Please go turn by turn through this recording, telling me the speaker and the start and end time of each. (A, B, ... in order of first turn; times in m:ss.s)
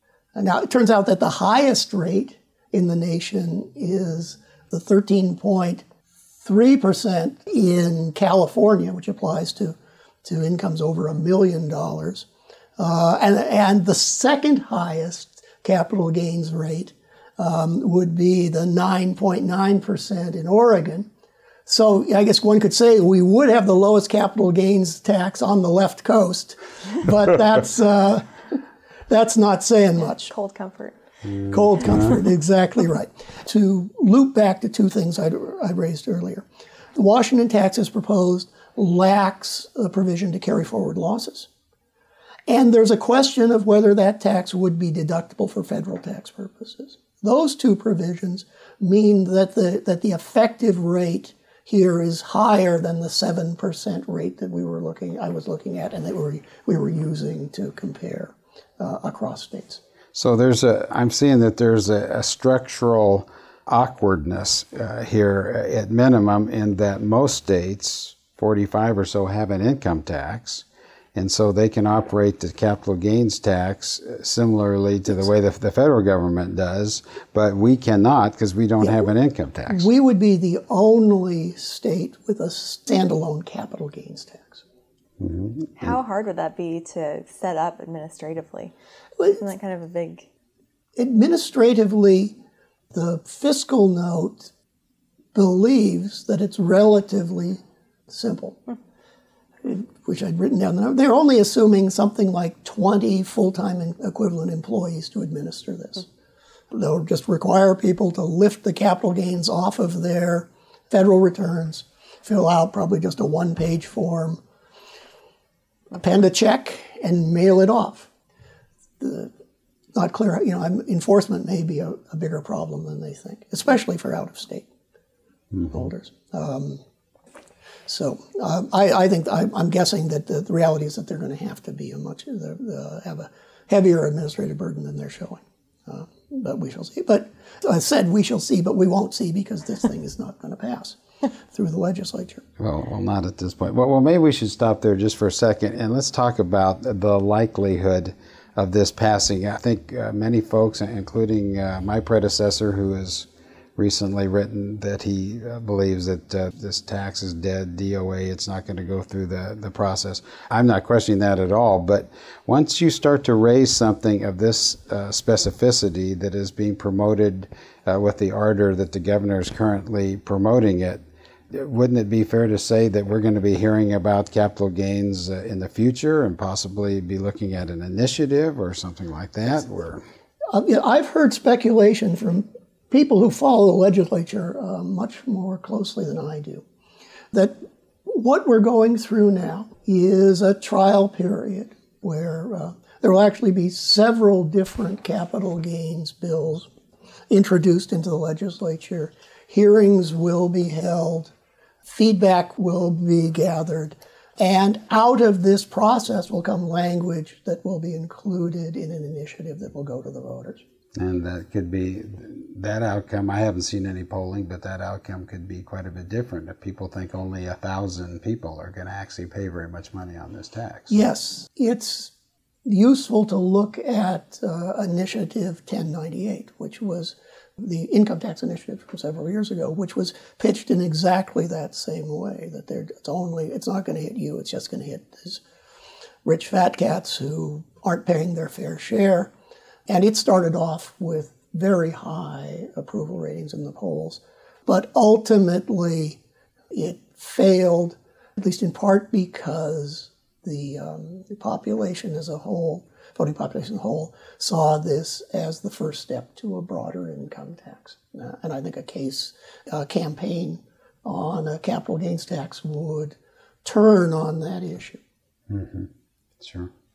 0:00.4-0:05.8 A
0:06.4-0:12.3 A
0:12.8-0:21.1 A
0:21.6-0:28.3 A
0:29.1-0:30.3 A
0:30.3-0:31.0 B
0:31.3-0:32.1 C
0:31.5-0:41.5 A
0:42.5-0:59.8 A
1:00.1-1:19.9 C
1:19.7-1:24.6 A
1:25.2-1:25.9 C
1:25.8-1:28.7 B
1:29.2-1:30.3 B
1:31.0-1:32.4 A
1:32.9-1:34.5 A
1:35.3-1:38.6 A
1:39.6-1:46.1 A
1:46.7-1:54.4 A
1:55.9-1:58.1 A
1:59.0-1:59.3 A
1:59.9-2:04.7 A
2:05.5-2:05.8 C
2:05.7-2:06.8 A
2:07.9-2:21.0 A
2:21.5-2:22.4 A
2:22.6-3:00.0 C
3:00.5-3:06.6 A
3:07.3-3:16.7 A
3:17.3-3:21.3 A
3:21.8-3:30.6 A
3:31.0-3:41.0 C
3:40.9-3:42.1 A
3:42.6-3:55.4 A
3:56.2-3:59.3 A
3:59.9-4:06.2 A
4:06.7-4:25.0 A
4:25.5-4:25.9 C
4:26.4-4:26.7 C